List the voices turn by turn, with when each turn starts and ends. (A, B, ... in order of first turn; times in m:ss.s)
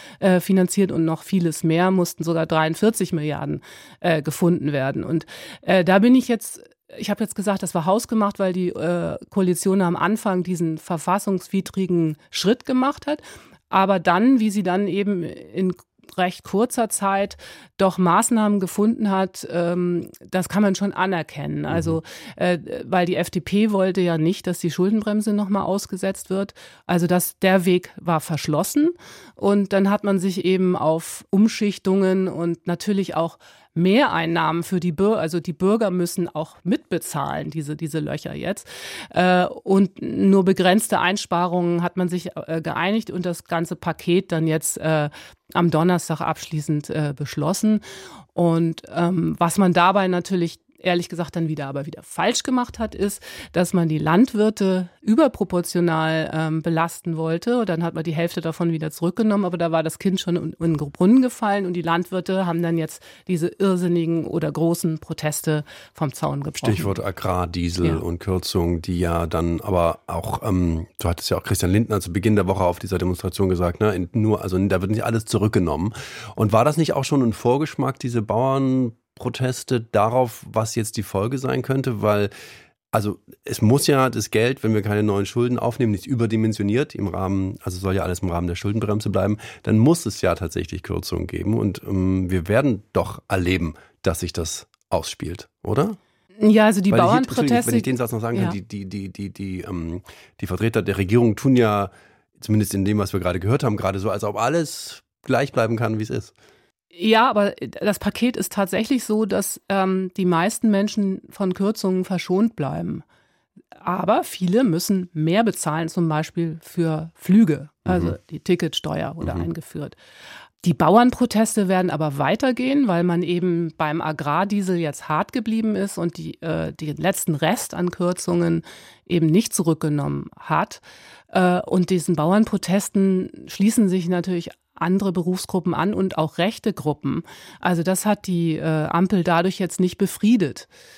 0:00.2-0:47.8 A
0:21.7-0:22.0 B
0:48.4-1:07.0 A
1:06.6-1:22.3 B
1:22.9-1:36.0 B
1:36.4-1:38.6 A
1:36.9-1:46.3 B
1:46.9-1:53.0 A
1:53.8-2:00.0 A
1:57.9-1:58.2 B
2:00.6-2:20.7 A